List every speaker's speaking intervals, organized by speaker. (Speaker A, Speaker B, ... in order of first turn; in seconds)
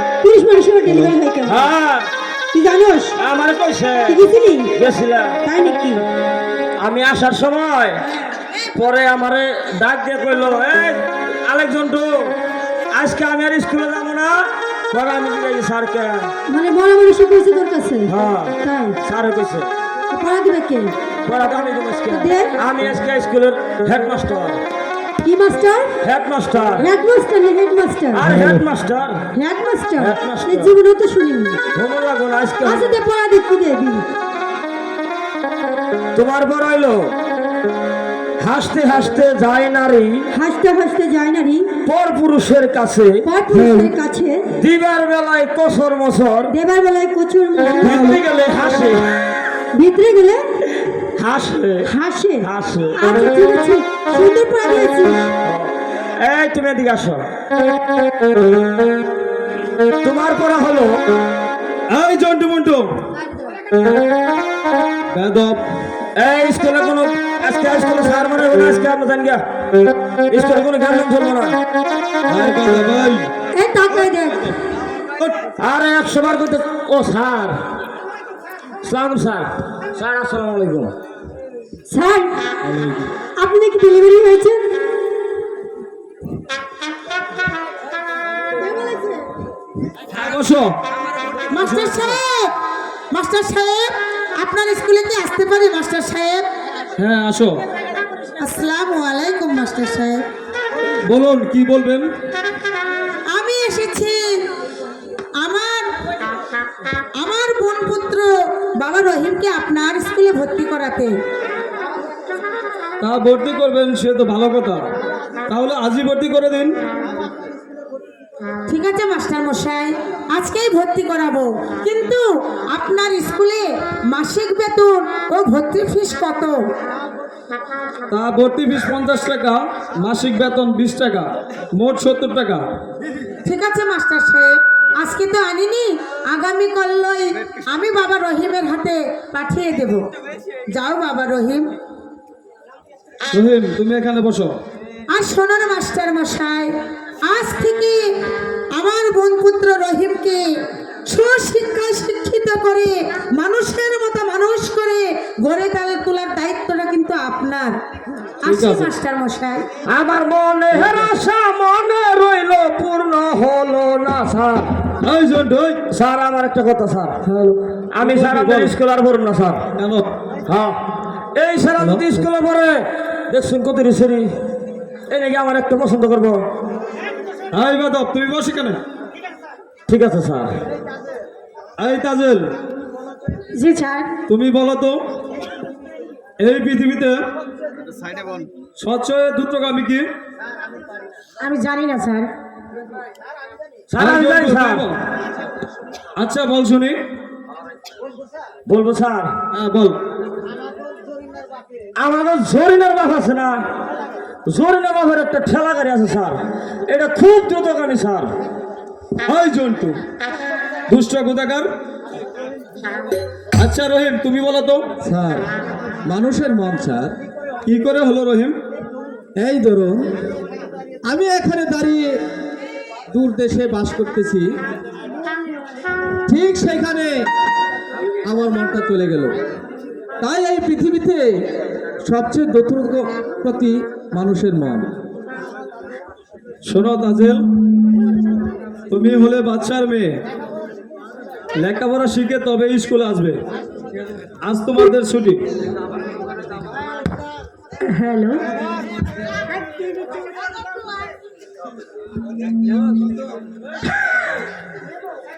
Speaker A: 0.2-1.7, 2.5-3.2, 4.1-4.7, 5.4-6.0, 16.5-19.0, 20.1-20.9, 22.1-22.5, 25.2-26.0, 26.8-28.4, 29.3-31.6, 32.6-34.1, 40.3-41.7, 43.2-44.5, 46.5-48.1, 49.7-50.5, 51.9-55.3, 73.5-74.5, 81.9-82.4, 83.4-84.6, 88.6-89.3
Speaker B: 1.5-2.1, 3.2-4.2, 4.7-5.4, 6.8-8.0, 8.8-12.3, 12.9-16.3, 18.1-19.7, 21.2-24.6, 26.0-26.9, 28.1-29.2, 30.0-30.7, 31.8-33.0, 36.1-37.1, 38.4-40.2, 41.9-43.2, 44.5-46.5, 47.8-49.1, 51.2-51.9, 52.4-53.0, 55.5-57.2, 60.0-60.9, 66.2-69.4, 70.3-71.6, 75.6-77.6, 78.8-80.9, 159.9-164.9, 165.9-167.3, 167.9-169.6, 170.5-170.8, 171.3-174.3, 175.1-176.4, 179.9-180.5, 193.9-194.9, 198.7-199.3, 202.0-203.7, 204.5-208.3
Speaker C: 61.9-62.9, 65.1-65.6, 72.3-73.3, 82.7-83.1, 90.1-90.8, 91.5-92.0, 97.0-97.6, 101.1-102.1, 113.0-114.9, 115.5-116.7, 128.1-132.7, 143.3-144.6, 158.4-158.9, 165.0-165.8, 167.3-168.7, 169.8-170.1, 171.8-172.2, 177.5-178.8, 181.8-182.4, 184.3-185.0, 186.4-187.2, 188.8-190.1, 194.0-195.0, 196.2-197.0, 199.5-200.0, 209.2-210.0, 210.9-211.7, 213.6-214.8, 217.7-218.6, 236.7-237.5, 238.9-240.2, 241.6-243.4, 244.4-245.4
Speaker D: 91.5-92.5, 93.1-96.5, 98.4-100.2, 103.3-104.2, 105.4-105.9, 107.2-111.1, 118.7-126.5, 133.4-140.0, 140.7-141.7, 145.1-146.7, 147.3-148.0, 148.8-150.4, 151.1-157.8, 158.4-159.7, 183.6-184.1, 191.4-192.3, 247.9-248.4
Speaker E: 215.0-215.5, 216.1-217.1, 219.4-220.0, 221.1-222.0, 223.1-224.5, 226.3-227.1, 228.3-229.3, 230.2-231.3, 232.1-234.9